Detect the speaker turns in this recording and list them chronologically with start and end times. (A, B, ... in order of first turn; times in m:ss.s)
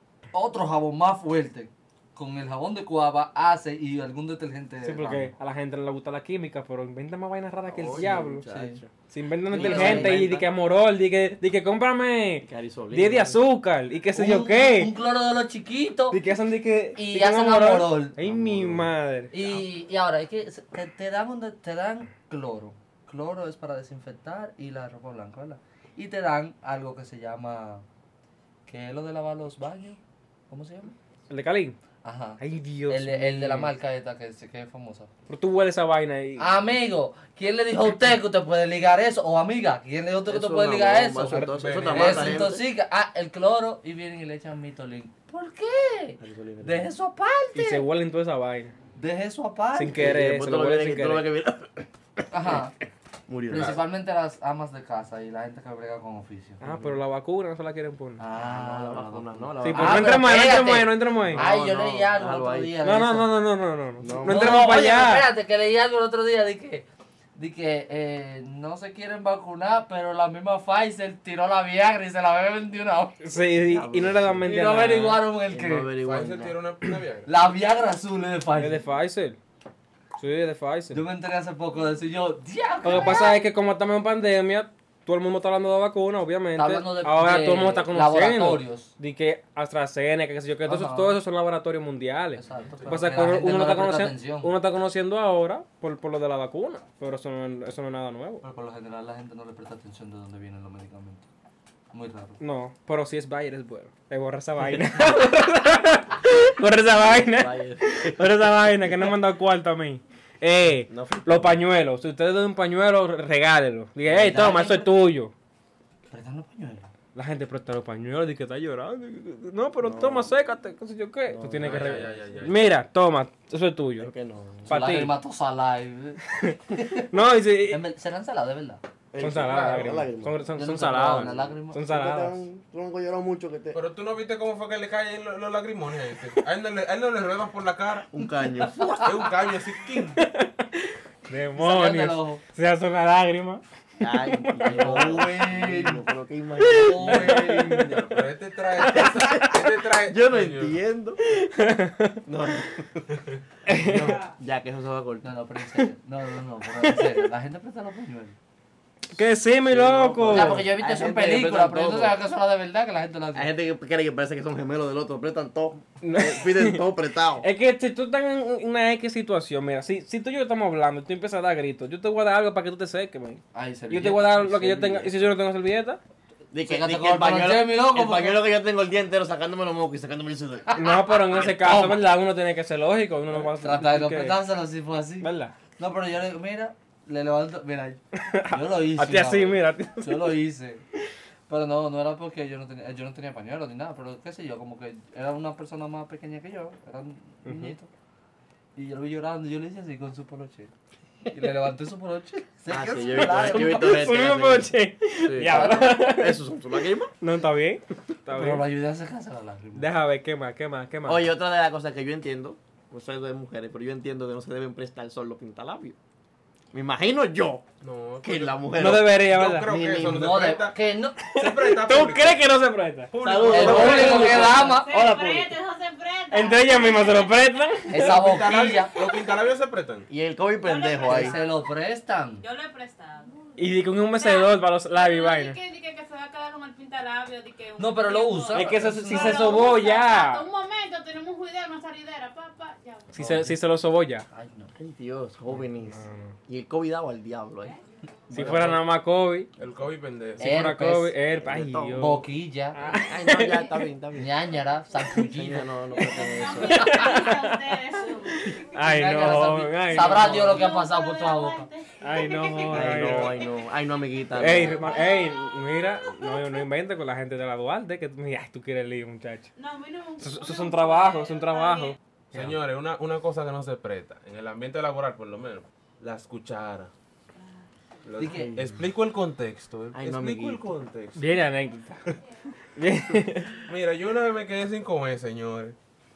0:00.3-0:05.3 A
0:04.8-0:08.4 B
0:07.7-0:08.9 C
0:08.4-0:08.8 A
0:09.1-0:14.9 B
0:09.5-0:10.4 A
0:09.5-0:10.3 C
0:12.4-0:13.4 C
0:14.1-0:16.2 A
0:16.1-0:19.3 B
0:17.0-0:18.2 A
0:18.2-0:18.9 C
0:19.3-0:27.8 A
0:28.7-0:30.0 A
0:30.5-0:30.9 A
0:31.3-0:31.8 B
0:32.0-0:35.1 A
0:32.4-0:33.7 B
0:35.3-0:36.5 B
0:36.4-0:47.8 A
0:40.2-0:42.6 C
0:41.3-0:41.9 B
0:41.6-0:42.4 D
0:46.2-0:46.9 C
0:47.5-0:48.7 B
0:49.0-0:50.0 A
0:49.7-0:51.2 B
0:49.8-0:52.6 C
0:52.3-0:52.7 A
0:53.3-0:53.8 C
0:53.5-0:56.6 A
0:56.6-0:58.2 B
0:56.6-0:57.0 C
0:58.2-1:03.3 A
0:58.3-1:00.4 C
0:59.6-1:01.5 B
1:01.2-1:02.8 C
1:02.8-1:05.3 B
1:04.0-1:04.7 C
1:04.2-1:13.2 A
1:13.2-1:15.2 B
1:13.6-1:14.8 C
1:14.4-1:15.9 A
1:15.4-1:16.6 C
1:16.0-1:17.3 D
1:17.2-1:18.8 A
1:18.6-1:19.4 B
1:20.2-1:21.0 B
1:20.9-1:23.4 A
1:22.8-1:38.4 B
1:26.6-1:28.9 A
1:30.6-1:31.2 A
1:32.4-1:34.5 A
1:38.4-1:41.3 A
1:41.9-1:42.4 A
1:42.4-1:55.3 B
1:44.6-1:45.1 C
1:46.9-1:49.1 C
1:50.9-1:51.6 C
1:54.1-1:55.0 A
1:56.1-1:56.9 A
1:57.1-2:04.1 B
1:59.8-2:00.3 C
2:01.3-2:02.6 C
2:01.6-2:02.6 D
2:04.0-2:05.0 C
2:04.6-2:07.1 A
2:04.7-2:05.1 B
2:06.4-2:07.8 B
2:07.7-2:08.8 A
2:09.1-2:13.8 C
2:09.2-2:12.4 B
2:10.6-2:11.9 A
2:13.7-2:18.1 D
2:18.1-2:19.2 C
2:19.0-2:20.2 D
2:20.2-2:23.6 B
2:21.6-2:22.4 A
2:24.0-2:27.5 C
2:24.2-2:25.2 B
2:24.6-2:26.0 A
2:26.6-2:27.8 B
2:26.7-2:28.1 A
2:27.0-2:30.8 D
2:28.8-2:31.2 C
2:28.9-2:29.4 B
2:31.3-2:32.2 B
2:32.3-2:33.1 C
2:33.7-2:34.2 B
2:33.7-2:35.3 C
2:35.2-2:38.4 A
2:39.1-2:40.6 B
2:39.7-2:42.2 C
2:40.2-2:43.5 A
2:43.3-2:47.4 C
2:46.0-2:46.8 B
2:47.4-2:56.0 B
2:53.5-2:55.1 A
2:54.4-2:55.1 C
2:56.5-3:00.8 C
2:56.6-2:58.4 A
3:00.8-3:04.4 B
3:01.1-3:02.0 A
3:03.3-3:10.8 A
3:05.2-3:05.5 B
3:08.2-3:10.4 B
3:11.5-3:17.9 A
3:17.4-3:17.7 B
3:18.8-3:20.7 A
3:21.3-3:24.1 A
3:22.7-3:27.1 C
3:23.2-3:26.4 B
3:25.4-3:25.9 A
3:27.2-3:28.6 B
3:28.3-3:29.9 A
3:29.8-3:31.2 B
3:31.0-3:36.0 C
3:36.7-3:37.6 C
3:37.8-3:40.8 D
3:38.2-3:40.4 C
3:38.8-3:39.7 B
3:40.0-3:41.2 A
3:41.3-3:44.6 B
3:41.3-3:42.4 D
3:43.1-3:44.3 D
3:43.2-3:45.4 C
3:43.5-3:44.9 A
3:43.7-3:47.9 E
3:45.1-3:45.4 B
3:46.3-3:48.2 B
3:47.9-3:48.9 A
3:48.0-3:50.1 D
3:50.1-3:51.3 C
3:50.6-3:51.6 E
3:51.0-3:52.4 A
3:52.4-3:53.4 E
3:53.6-3:55.6 B
3:54.1-4:03.4 E
3:57.8-3:59.7 A
3:58.5-4:00.5 B
4:03.1-4:04.2 B
4:03.2-4:03.6 A
4:04.3-4:04.7 A
4:04.8-4:07.8 C
4:05.9-4:06.4 B
4:08.3-4:08.8 C
4:08.3-4:09.5 B
4:08.3-4:08.7 A
4:09.6-4:10.5 D
4:10.4-4:11.1 A
4:10.4-4:13.7 B
4:11.4-4:12.2 C
4:11.9-4:12.8 A
4:12.9-4:14.3 C
4:14.1-4:17.2 A
4:15.2-4:16.9 C
4:16.0-4:18.8 E
4:16.8-4:17.6 B
4:18.4-4:20.6 B
4:18.8-4:21.7 A
4:19.9-4:23.5 E
4:22.0-4:23.4 B
4:22.7-4:24.9 C
4:24.4-4:29.5 B
4:24.4-4:26.4 E
4:29.6-4:32.0 E
4:30.2-4:32.6 B
4:32.3-4:36.9 D
4:37.3-4:37.6 E
4:38.0-4:41.3 D
4:38.2-4:38.6 A
4:38.2-4:38.8 C
4:39.9-4:40.7 C
4:41.2-4:42.1 B
4:42.8-4:43.6 B
4:43.6-4:45.8 D